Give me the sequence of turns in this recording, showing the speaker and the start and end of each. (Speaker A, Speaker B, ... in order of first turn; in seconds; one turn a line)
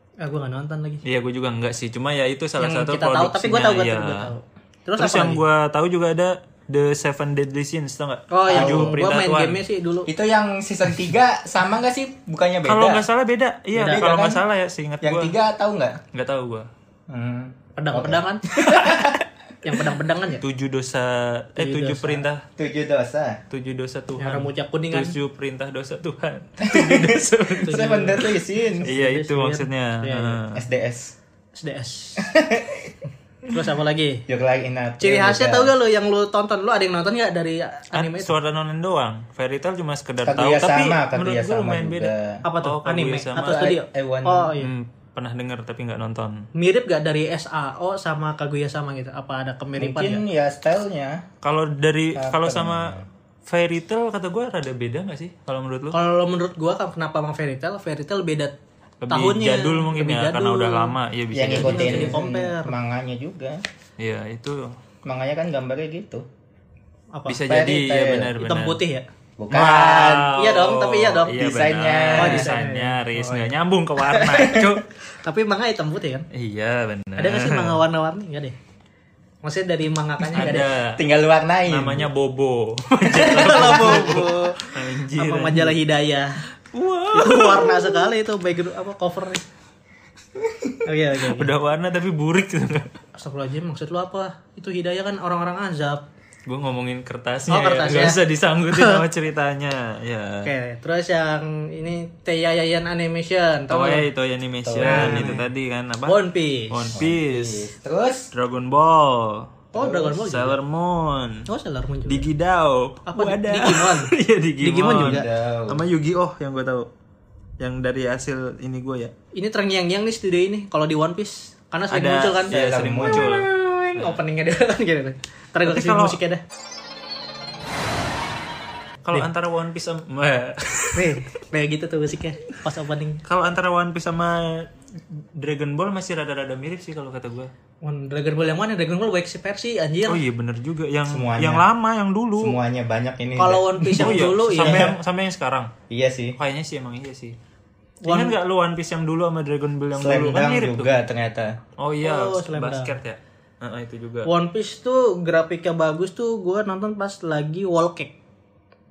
Speaker A: 0.2-1.0
Speaker B: 1.1-4.3
Speaker A: 2.6-5.4
Speaker B: 5.0-9.6
Speaker A: 8.3-10.1
Speaker C: 8.5-9.0
Speaker C: 10.1-13.1
Speaker B: 12.7-15.3
Speaker A: 13.8-14.1
Speaker C: 13.8-14.4
Speaker C: 15.0-16.0
Speaker B: 16.1-16.7
Speaker C: 17.1-19.2
Speaker A: 17.8-18.9
Speaker B: 18.8-19.1
Speaker A: 19.6-20.4
Speaker B: 20.4-22.4
Speaker A: 21.6-22.2
Speaker C: 22.6-23.4
Speaker B: 23.5-28.3
Speaker A: 24.2-25.1
Speaker C: 26.6-28.9
Speaker A: 27.6-30.4
Speaker B: 28.9-30.6
Speaker C: 30.6-31.1
Speaker A: 31.6-32.3
Speaker C: 32.2-32.9
Speaker A: 33.5-34.2
Speaker C: 34.3-35.7
Speaker A: 35.0-38.3
Speaker B: 37.9-43.7
Speaker C: 40.2-42.4
Speaker A: 42.4-44.7
Speaker C: 43.4-44.5
Speaker B: 44.6-46.5
Speaker A: 46.5-50.2
Speaker C: 49.8-51.2
Speaker B: 51.4-53.0
Speaker C: 52.1-53.0
Speaker B: 53.5-56.0
Speaker A: 55.9-58.5
Speaker B: 59.0-62.2
Speaker A: 59.1-61.0
Speaker C: 61.3-63.6
Speaker A: 61.5-62.8
Speaker B: 64.0-64.8
Speaker C: 65.0-66.2
Speaker A: 67.1-67.4
Speaker B: 67.3-68.8
Speaker C: 67.5-68.3
Speaker A: 68.4-69.1
Speaker C: 69.4-70.3
Speaker B: 69.5-74.8
Speaker A: 70.3-71.4
Speaker C: 71.3-72.5
Speaker A: 72.2-73.5
Speaker A: 74.1-74.6
Speaker C: 74.3-74.7
Speaker A: 75.2-76.3
Speaker B: 76.3-77.8
Speaker A: 77.2-78.6
Speaker A: 79.4-80.7
Speaker B: 80.3-81.0
Speaker C: 80.4-82.1
Speaker B: 81.7-85.8
Speaker A: 83.1-86.4
Speaker C: 83.2-84.2
Speaker B: 86.7-88.0
Speaker A: 87.1-89.5
Speaker A: 90.8-91.5
Speaker B: 91.2-92.9
Speaker A: 93.2-96.0
Speaker B: 96.5-100.5
Speaker A: 97.5-99.0
Speaker A: 100.4-104.0
Speaker B: 103.7-107.7
Speaker C: 104.7-105.4
Speaker A: 104.8-105.4
Speaker A: 106.1-107.0
Speaker C: 106.9-108.3
Speaker B: 108.3-111.5
Speaker A: 109.7-110.6
Speaker A: 111.5-112.3
Speaker B: 112.1-116.9
Speaker A: 113.1-115.3
Speaker C: 114.9-115.8
Speaker B: 117.6-119.1
Speaker A: 119.3-122.5
Speaker B: 121.9-124.2
Speaker C: 122.5-123.3
Speaker A: 123.1-126.4
Speaker B: 125.7-126.2
Speaker B: 129.1-131.2
Speaker A: 130.9-133.2
Speaker B: 133.2-134.7
Speaker B: 135.2-137.5
Speaker A: 137.8-140.2
Speaker B: 140.1-142.6
Speaker C: 141.1-141.7
Speaker C: 142.4-144.9
Speaker A: 143.4-144.9
Speaker B: 144.0-145.7
Speaker C: 145.9-146.4
Speaker B: 146.4-147.4
Speaker A: 148.0-148.4
Speaker B: 148.1-150.9
Speaker C: 150.0-151.6
Speaker B: 151.8-154.3
Speaker A: 152.0-153.0
Speaker A: 154.3-158.1